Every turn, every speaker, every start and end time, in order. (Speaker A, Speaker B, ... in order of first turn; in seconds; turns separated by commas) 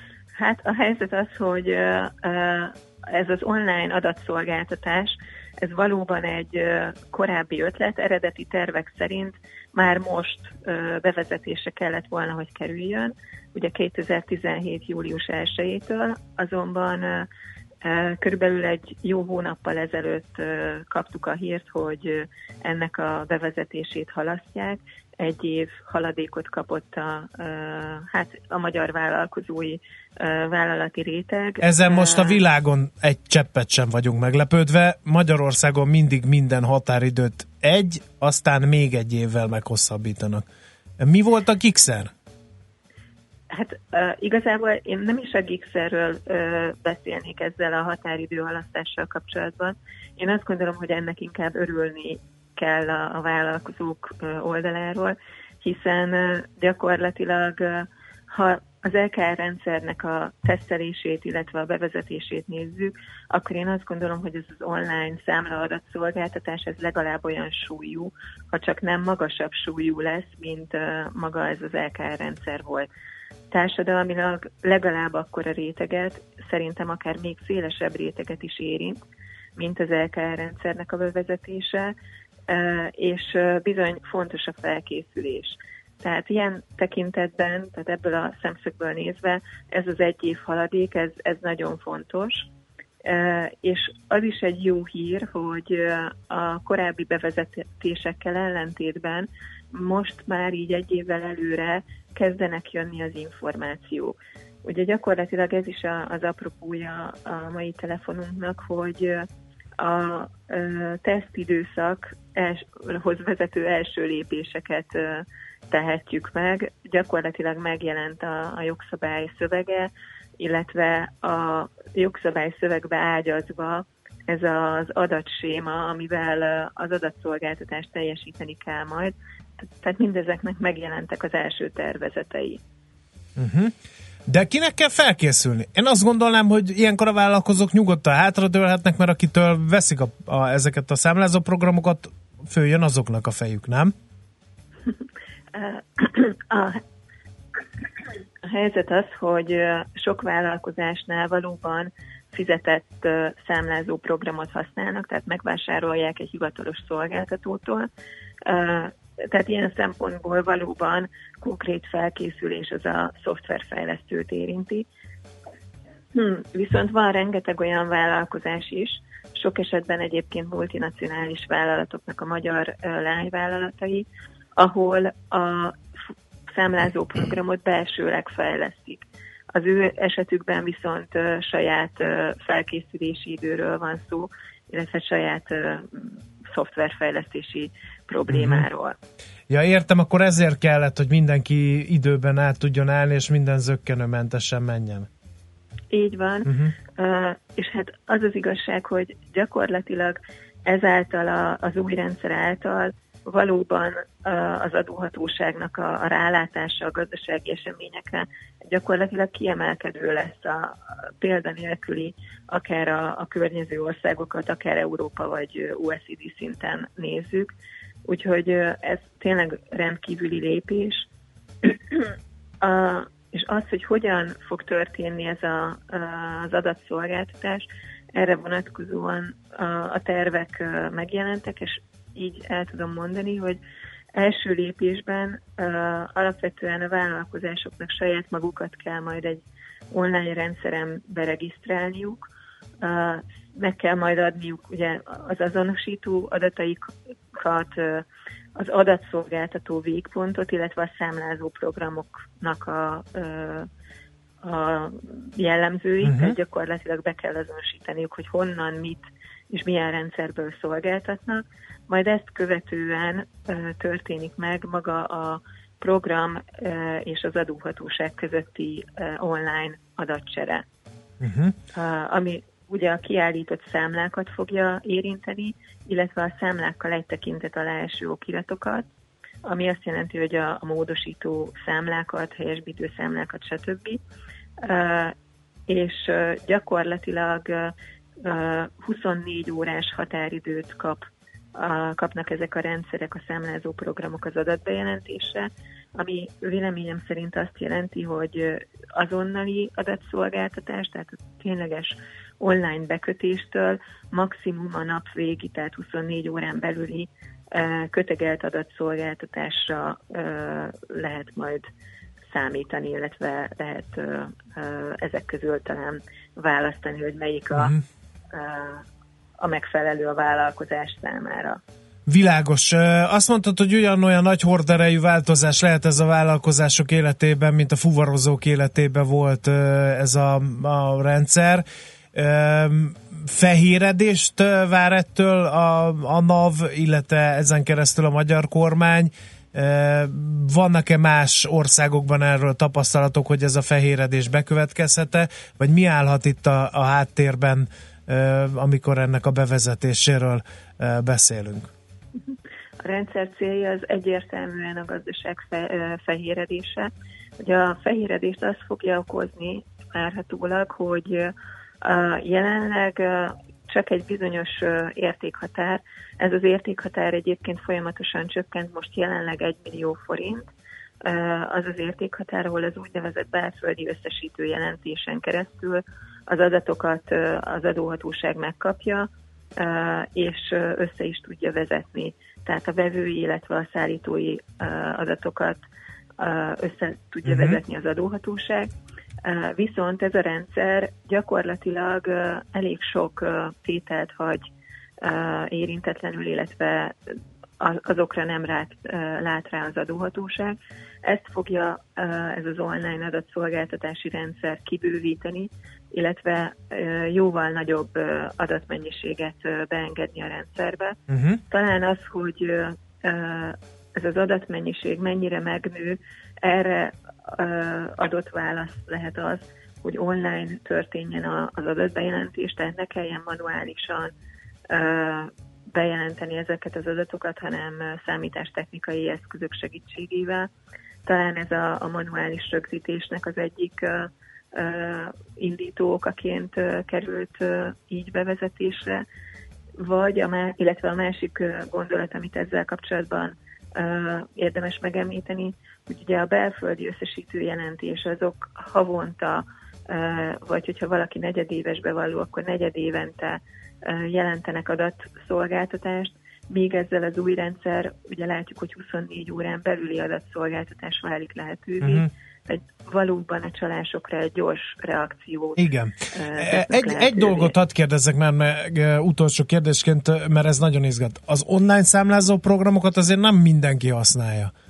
Speaker A: 0.3-17.3, Speaker A: 17.8-32.4, Speaker B: 31.6-40.4, Speaker B: 41.0-42.1, Speaker A: 43.5-72.9, Speaker A: 73.5-79.0, Speaker A: 79.5-81.9, Speaker A: 82.5-92.5, Speaker A: 93.0-109.3, Speaker A: 109.8-132.6, Speaker B: 133.4-133.7, Speaker B: 134.3-143.9, Speaker A: 145.5-146.8, Speaker A: 148.5-157.9, Speaker A: 158.4-164.9, Speaker A: 166.1-174.1, Speaker A: 174.6-175.7, Speaker A: 176.5-188.9, Speaker B: 188.3-188.6, Speaker B: 189.5-195.1, Speaker A: 195.9-217.5, Speaker B: 196.5-196.7, Speaker A: 218.1-221.1, Speaker A: 221.6-222.1, Speaker A: 222.6-233.6, Speaker A: 234.1-242.2, Speaker A: 242.8-248.0, Speaker A: 248.6-253.7, Speaker A: 254.4-270.6, Speaker B: 256.0-256.4, Speaker B: 271.2-271.6, Speaker A: 271.7-278.9, Speaker A: 279.4-284.0, Speaker A: 284.6-285.1, Speaker A: 285.7-311.7, Speaker A: 312.3-317.7, Speaker B: 317.5-317.8, Speaker A: 318.3-318.8, Speaker A: 319.4-321.6, Speaker B: 322.1-351.7, Speaker A: 352.2-356.9, Speaker A: 357.4-370.5, Speaker A: 371.0-385.6, Speaker A: 386.2-388.7, Speaker B: 387.2-387.6, Speaker A: 389.2-394.4, Speaker A: 395.0-397.0, Speaker A: 397.6-411.0, Speaker B: 411.1-411.4, Speaker A: 411.5-424.1, Speaker A: 424.7-430.5, Speaker A: 431.1-439.0, Speaker A: 439.8-467.5, Speaker B: 461.8-462.1, Speaker B: 465.6-474.5